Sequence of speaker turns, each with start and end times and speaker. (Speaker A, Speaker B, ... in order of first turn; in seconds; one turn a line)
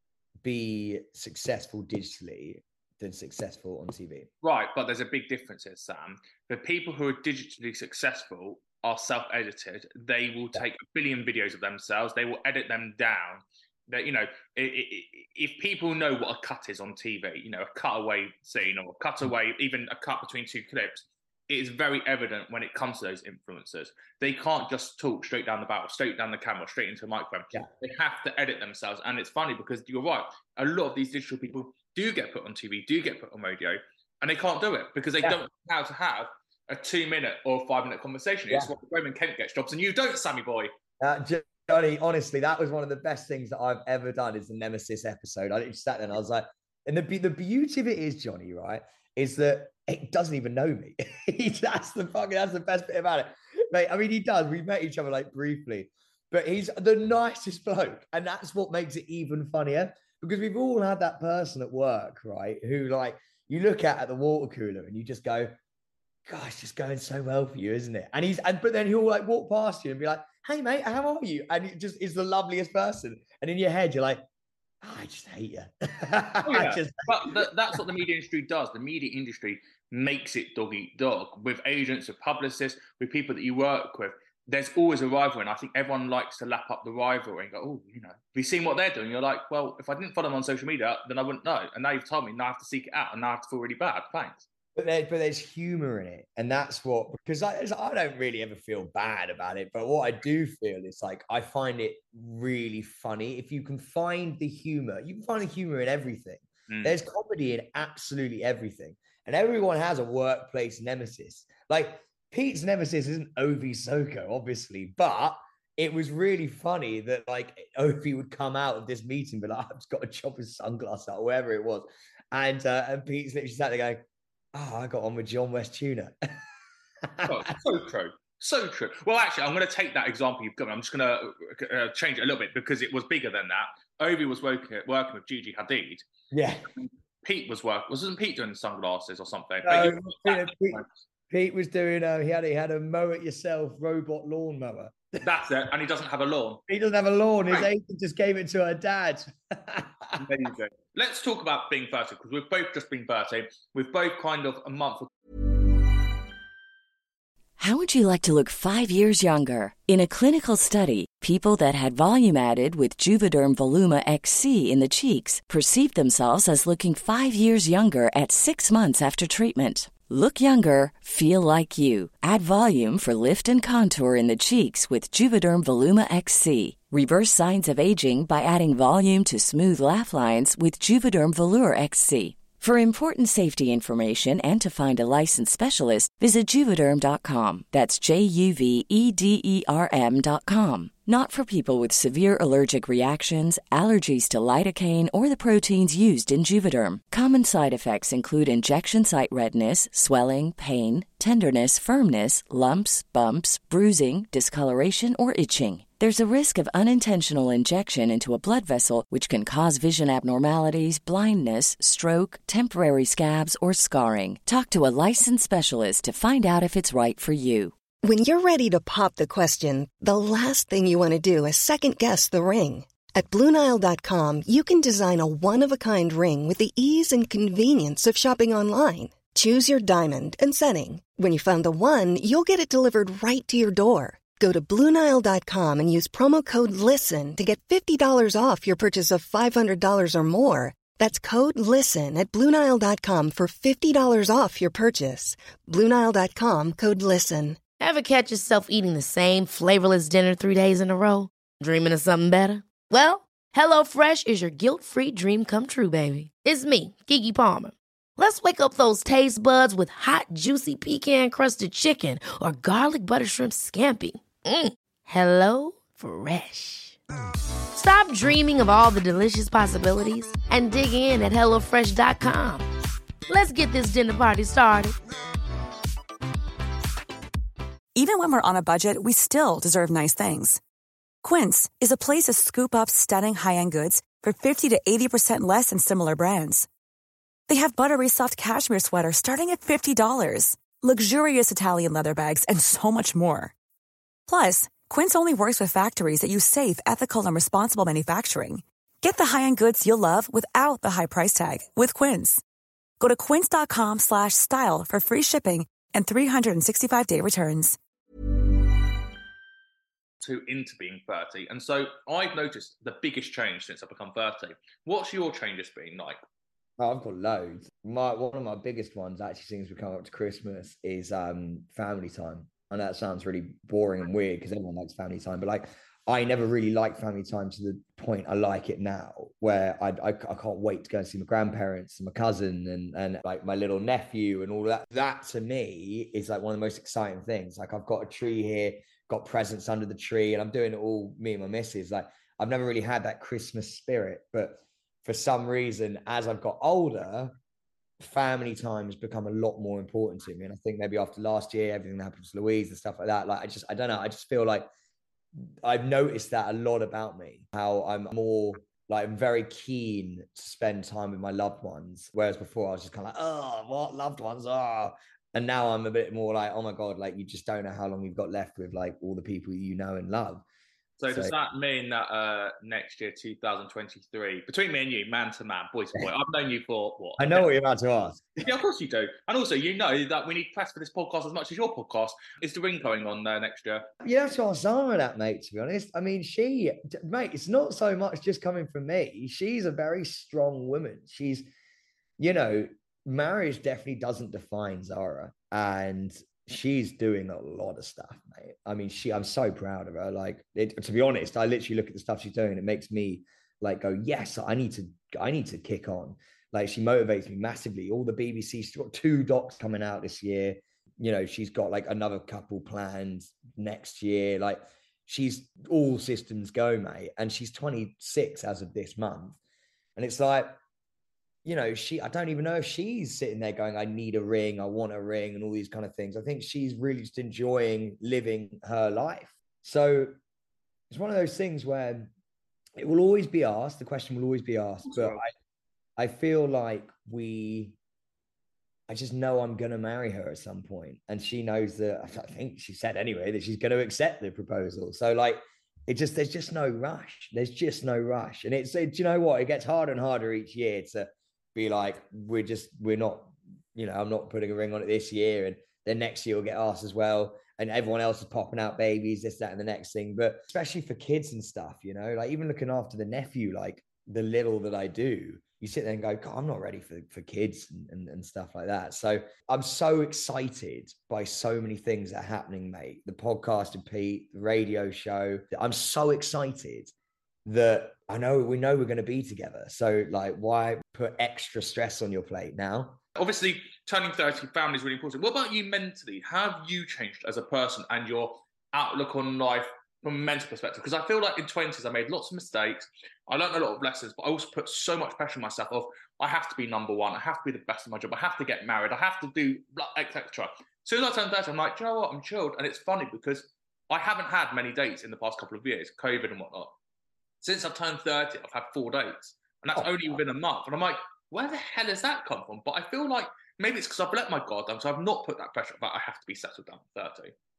Speaker A: 0.4-4.3
Speaker B: 4.4-40.7
Speaker A: 41.0-65.5
Speaker A: 66.3-74.2
Speaker A: 74.8-77.5
Speaker B: 76.4-94.5
Speaker A: 94.8-124.0
Speaker B: 106.7-106.9
Speaker A: 124.5-126.1
Speaker A: 127.0-127.5
Speaker B: 127.2-136.0
Speaker A: 136.3-136.7
Speaker B: 137.2-140.8
Speaker A: 139.6-145.2
Speaker B: 145.2-146.6
Speaker A: 146.7-150.2
Speaker B: 150.2-155.1
Speaker C: 157.6-217.7
Speaker D: 218.0-247.6
Speaker E: 247.8-267.0
Speaker E: 267.7-272.7
Speaker E: 273.3-274.9
Speaker F: 278.0-280.6
Speaker F: 281.2-286.7
Speaker F: 287.5-293.5
Speaker F: 294.3-302.4
Speaker F: 303.0-307.8
Speaker B: 310.2-316.2
Speaker A: 316.8-347.3
Speaker A: 348.0-354.7
Speaker A: 355.4-370.4
Speaker B: 371.0-377.4
Speaker A: 377.2-378.5
Speaker B: 378.4-383.9
Speaker A: 384.0-391.4
Speaker A: 392.2-419.4
Speaker A: 419.9-420.5
Speaker A: 421.4-430.1
Speaker A: 430.9-432.1
Speaker A: 432.8-435.3
Speaker B: 434.9-435.2
Speaker A: 436.0-437.8
Speaker A: 438.9-476.9
Speaker A: 477.4-483.0
Speaker B: 483.2-506.8
Speaker B: 507.4-517.3
Speaker A: 509.7-510.1